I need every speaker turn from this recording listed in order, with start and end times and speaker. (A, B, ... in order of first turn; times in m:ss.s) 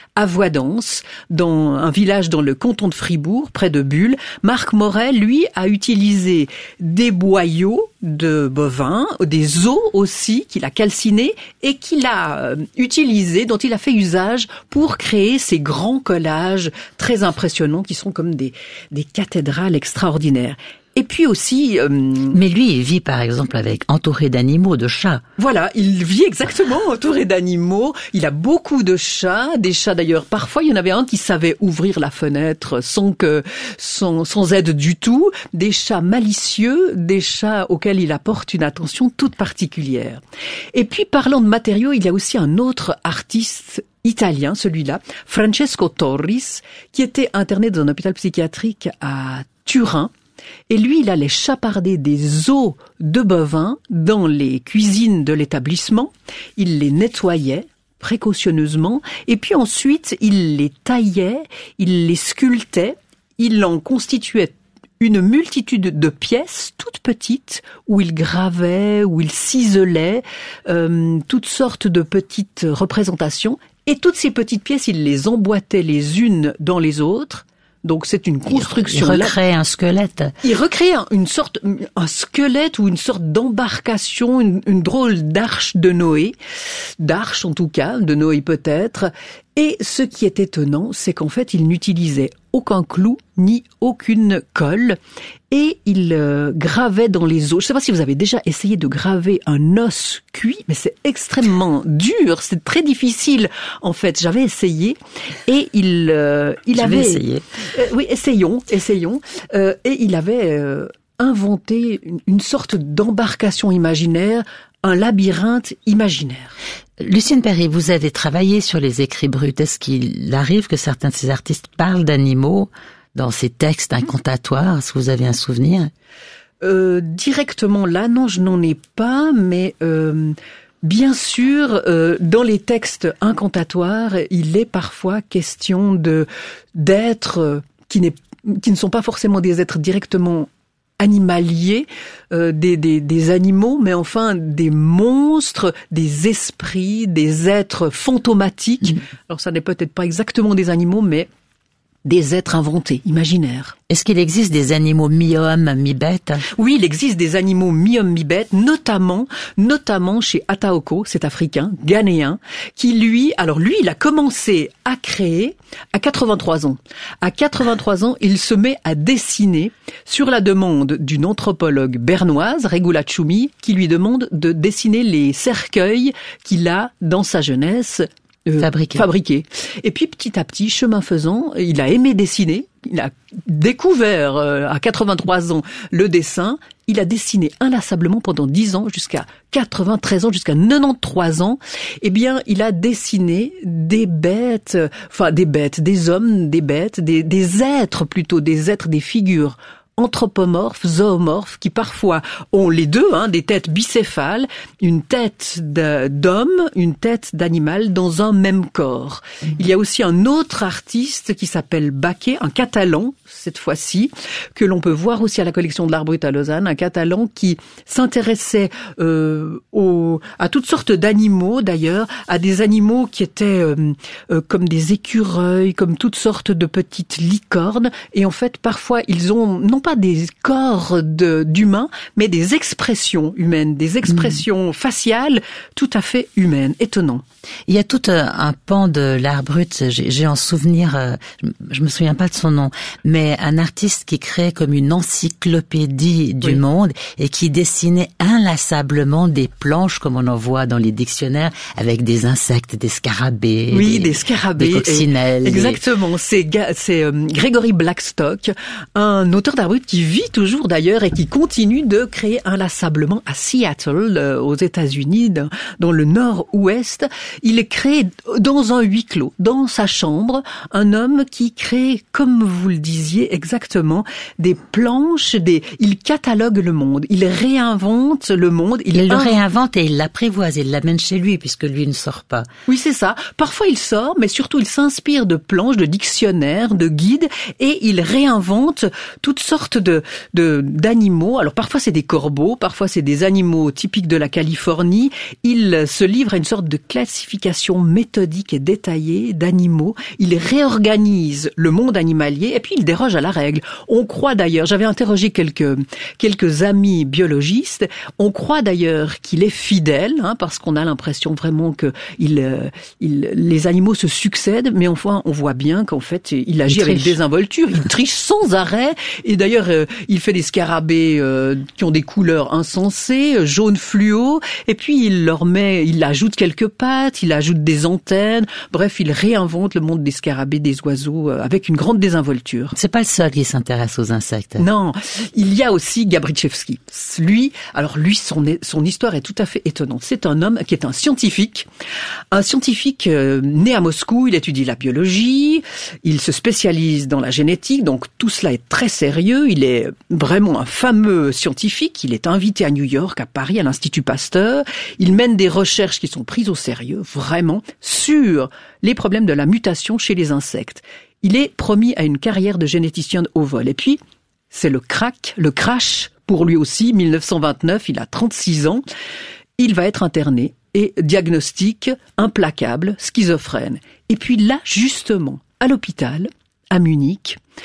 0:00.2-0:22.4 A
0:22.3-0:25.2 B
0:25.4-0:40.2 A
0:40.7-0:50.1 A
0:50.7-1:19.3 A
1:18.5-1:20.3 B
1:20.4-1:26.4 A
1:27.0-1:35.0 A
1:35.5-1:56.6 A
1:46.8-1:47.4 B
1:57.0-2:05.9 B
2:06.6-2:20.5 A
2:21.0-2:31.3 A
2:32.0-2:33.7 A
2:33.9-2:36.4 B
2:36.6-3:57.2 A
2:58.6-2:59.0 B
3:57.7-4:15.8 B
4:13.7-4:39.4 A
4:38.9-4:42.5 B
4:42.7-5:32.7 A
5:16.7-5:17.1 B
5:32.7-5:34.7 B
5:34.6-5:41.7 A
5:42.3-6:04.0 A
6:04.5-6:08.8 A
6:09.6-6:17.4 A